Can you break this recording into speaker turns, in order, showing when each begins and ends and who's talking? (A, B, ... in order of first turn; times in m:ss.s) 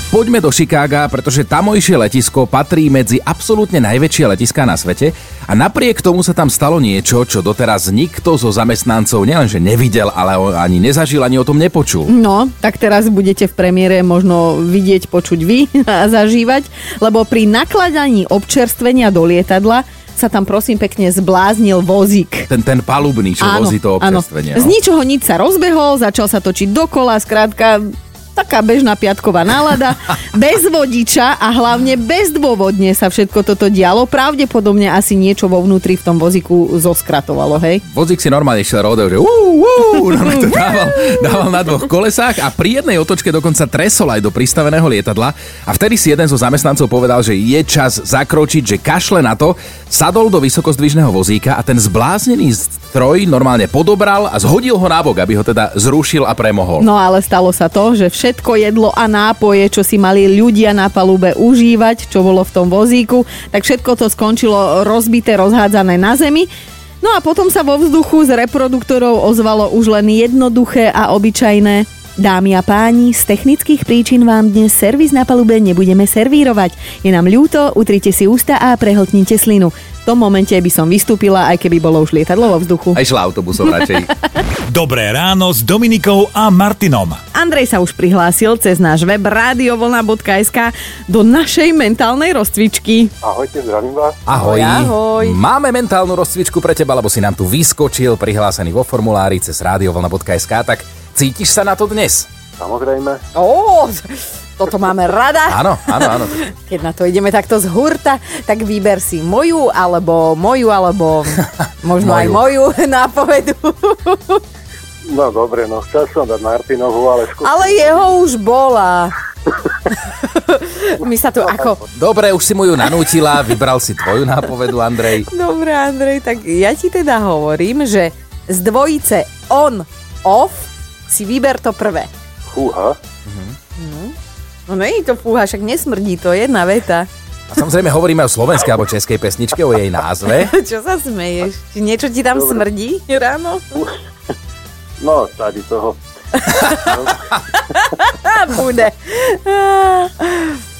0:00.1-0:12.1 A
0:12.1-0:22.5 B
0:22.5-0:24.7 A
0:23.4-0:37.8 B
0:37.9-0:56.9 A
0:56.8-1:06.5 B
1:07.0-1:23.0 B
1:22.9-1:24.1 A
1:24.7-1:27.2 C
1:27.3-1:33.1 B
1:33.2-1:34.2 D
1:34.2-1:42.3 A
1:34.3-1:35.4 B
1:42.6-1:43.2 D
1:43.3-1:54.4 B
1:45.5-1:46.5 A
1:52.0-1:52.4 A
1:55.0-1:57.8 D
1:57.4-1:59.1 B
1:59.9-2:01.8 B
2:01.9-2:05.3 A
2:05.3-2:12.1 B
2:12.5-2:13.0 D
2:13.2-2:13.5 A
2:13.8-2:14.1 B
2:14.7-2:17.1 B
2:17.5-2:20.5 A
2:20.2-2:23.7 B
2:22.3-2:22.6 D
2:25.0-2:26.0 D
2:26.4-2:30.5 B
2:26.8-2:27.2 D